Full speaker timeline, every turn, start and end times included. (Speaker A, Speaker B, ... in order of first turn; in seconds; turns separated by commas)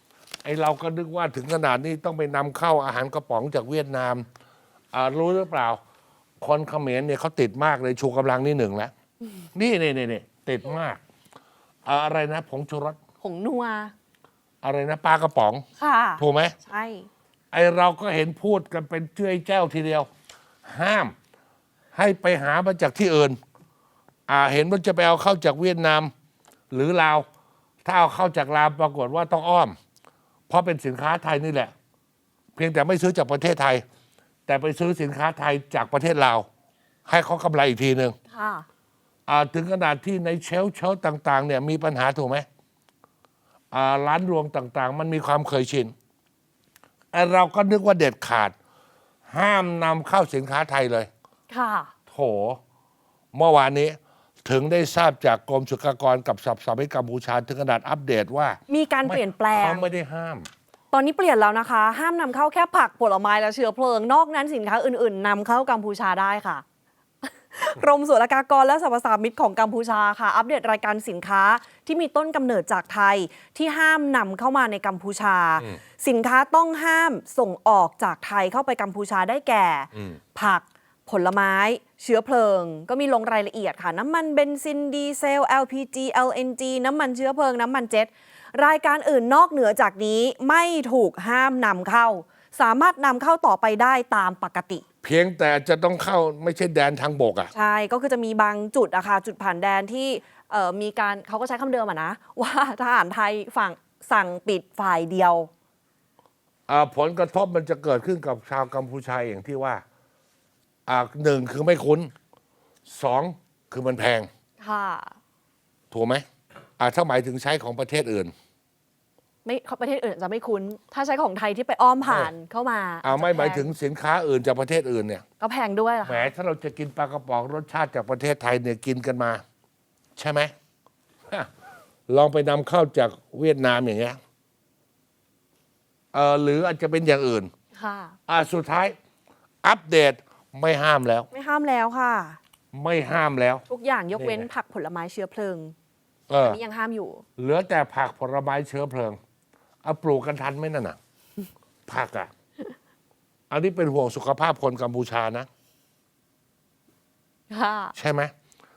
Speaker A: 0.4-4.2, Speaker A: 4.9-5.8, Speaker A: 6.4-8.9, Speaker A: 9.5-11.0, Speaker A: 11.9-13.0, Speaker B: 13.2-13.9, Speaker A: 14.6-15.7, Speaker B: 15.8-17.1, Speaker A: 16.2-16.6, Speaker A: 17.5-20.1, Speaker A: 20.6-21.1, Speaker A: 21.9-23.4, Speaker A: 24.3-26.1, Speaker A: 26.7-27.2, Speaker A: 27.8-29.8, Speaker A: 30.5-31.7, Speaker A: 32.5-33.8, Speaker A: 34.5-36.5, Speaker A: 37.1-38.2, Speaker B: 38.3-38.7, Speaker A: 39.3-42.5, Speaker A: 43.7-45.9, Speaker A: 47.1-48.5, Speaker A: 49.3-51.1, Speaker B: 51.5-51.9, Speaker A: 52.1-52.6, Speaker A: 53.3-60.5, Speaker B: 58.7-59.9, Speaker B: 60.9-66.6, Speaker B: 67.5-94.8, Speaker A: 95.0-97.5, Speaker B: 97.5-105.5, Speaker A: 106.7-109.8, Speaker A: 110.9-112.1, Speaker A: 112.8-114.3, Speaker B: 114.6-115.2, Speaker A: 115.9-116.2, Speaker A: 116.8-118.3, Speaker B: 119.4-123.7, Speaker A: 122.0-122.3, Speaker A: 123.0-125.2, Speaker B: 125.4-126.3, Speaker A: 126.0-129.4, Speaker A: 130.2-130.5, Speaker A: 132.1-134.2, Speaker A: 136.1-137.5, Speaker B: 137.8-138.2, Speaker A: 138.3-139.0, Speaker A: 139.6-141.3, Speaker B: 141.3-142.4, Speaker A: 142.7-143.6, Speaker B: 143.7-145.8, Speaker A: 144.2-144.5, Speaker A: 146.3-146.6, Speaker B: 146.4-147.2, Speaker A: 147.4-149.2, Speaker A: 149.8-151.0, Speaker A: 151.9-152.3, Speaker A: 153.5-155.5, Speaker B: 157.5-157.9, Speaker A: 158.0-158.3